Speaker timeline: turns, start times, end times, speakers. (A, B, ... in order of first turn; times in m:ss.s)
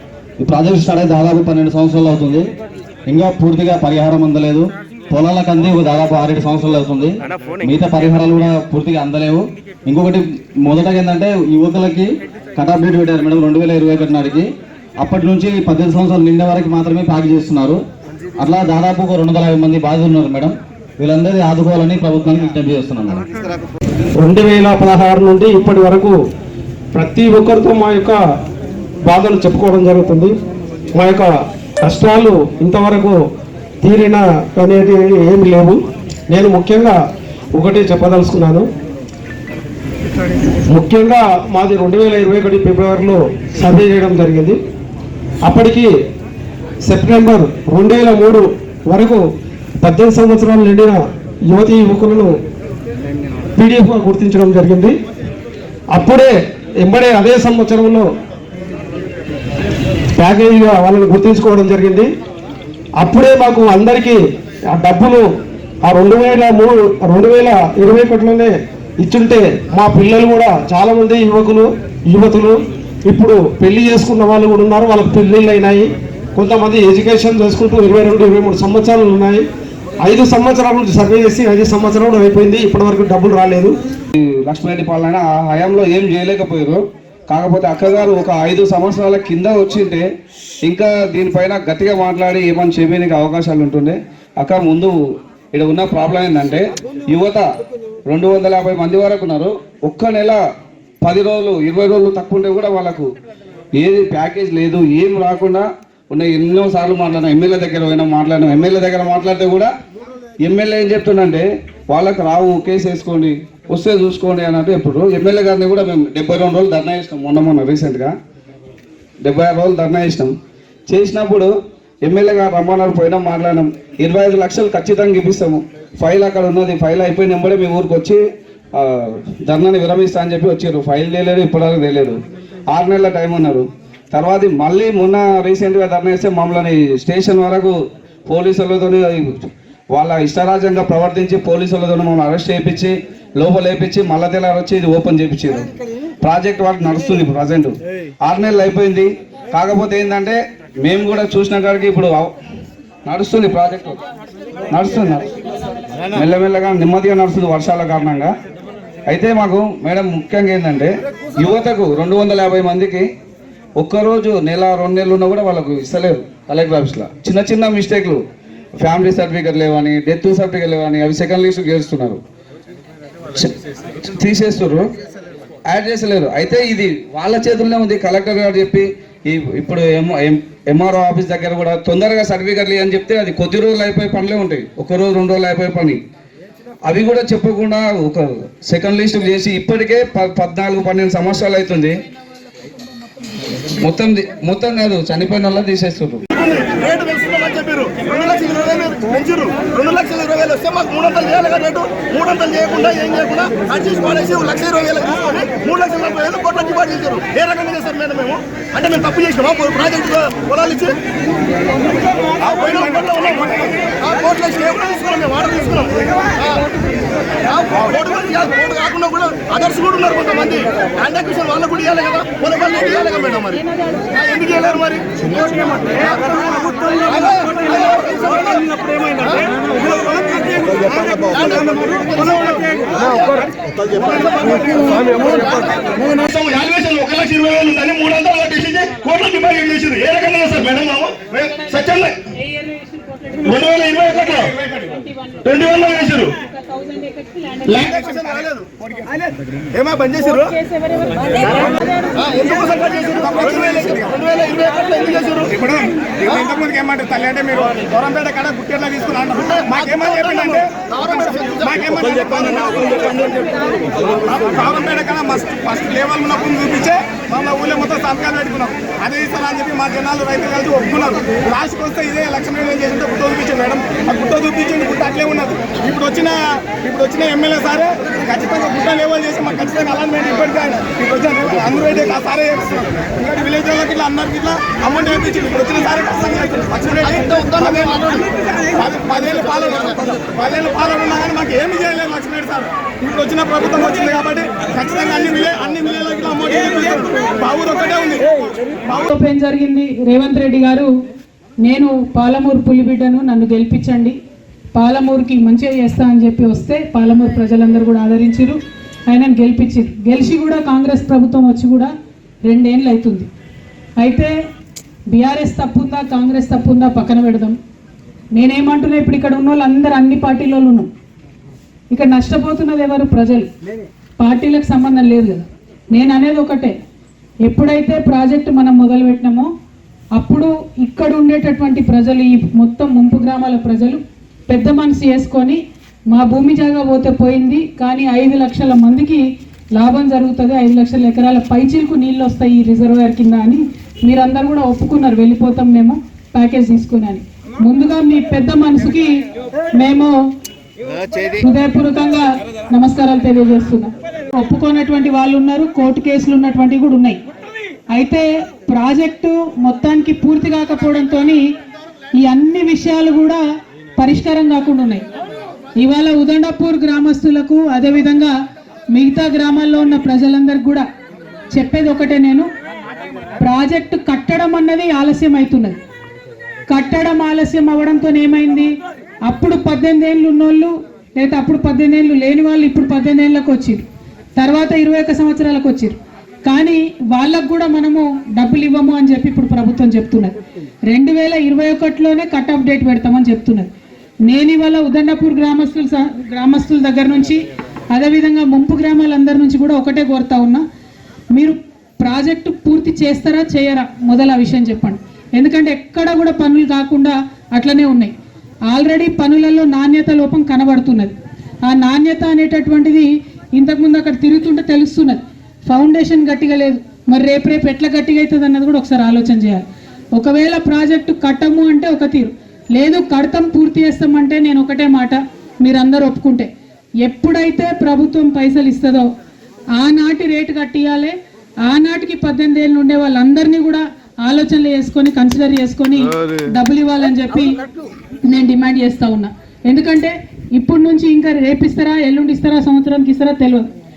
0:00.4-0:02.5 A
0:03.1-0:17.8 A
0:18.4-0:23.2 A
0:24.2-0:26.2 B
0:26.9-0:28.2 B
0:29.1-0:30.3 B
0:30.9-0:33.2 B
0:33.8-0:37.0 B
0:37.6-0:38.7 B
0:40.7-0:44.6 B
0:45.4-0:45.9 B
0:46.8-0:49.2 B
0:49.8-0:52.4 B
0:53.6-0:54.9 B
0:55.9-0:58.1 B
1:00.2-1:02.1 B
1:03.0-1:05.3 B
1:05.8-1:19.4 B
1:20.0-1:23.8 B
1:24.2-1:30.1 C
1:30.6-1:35.0 C
1:35.5-1:37.4 C
1:38.0-1:40.4 C
1:41.0-1:43.1 C
1:43.8-1:49.7 C
1:50.4-1:58.1 C
1:59.2-2:00.3 C
2:00.9-2:01.5 C
2:02.0-2:08.2 C
2:08.7-2:25.7 C
2:26.2-2:27.7 C
2:28.2-2:32.3 C
2:33.0-2:34.0 C
2:34.7-2:35.4 C
2:36.1-2:38.3 C
2:39.1-2:43.1 C
2:43.8-2:48.2 C
2:48.8-2:52.2 C
2:53.3-2:54.9 C
2:55.7-3:06.0 C
3:06.8-3:12.0 C
3:13.8-3:16.2 C
3:16.3-3:31.0 D
3:32.4-3:36.6 D
3:32.6-3:33.1 E
3:37.5-4:02.2 D
4:02.4-4:03.2 F
4:03.4-4:04.5 D
4:04.1-4:05.5 E
4:05.5-4:06.3 D
4:06.7-4:07.6 F
4:07.7-4:08.0 D
4:07.9-4:09.0 E
4:09.7-4:10.6 E
4:09.8-4:10.3 D
4:12.2-4:15.5 D
4:13.2-4:14.2 E
4:15.5-4:23.5 E
4:19.6-4:20.4 D
4:21.0-4:22.3 D
4:22.8-4:23.2 D
4:24.2-4:58.3 E
4:47.2-4:48.3 D
4:58.9-5:00.9 F
5:01.6-5:04.2 F
5:04.7-5:08.6 F
5:09.1-5:11.9 F
5:12.4-5:13.3 F
5:14.0-5:14.3 F
5:15.1-5:17.6 F
5:18.3-5:20.9 F
5:21.9-5:23.5 F
5:24.2-5:26.7 F
5:27.4-5:29.5 F
5:30.2-5:39.2 F
5:39.7-5:49.2 F
5:49.8-5:50.1 F
5:51.4-5:57.2 F
5:57.9-6:01.4 F
6:02.2-6:03.4 F
6:04.0-6:05.0 F
6:05.8-6:08.3 F
6:08.9-6:10.8 F
6:11.5-6:12.5 F
6:13.4-6:15.8 F
6:16.7-6:18.7 F
6:19.2-6:23.8 F
6:24.4-6:30.4 F
6:30.9-6:33.7 F
6:34.3-6:40.6 F
6:41.3-6:48.1 F
6:48.7-6:51.1 F
6:51.6-7:06.5 F
7:07.0-7:09.1 F
7:09.8-7:11.1 F
7:11.6-7:17.6 F
7:18.2-7:23.7 F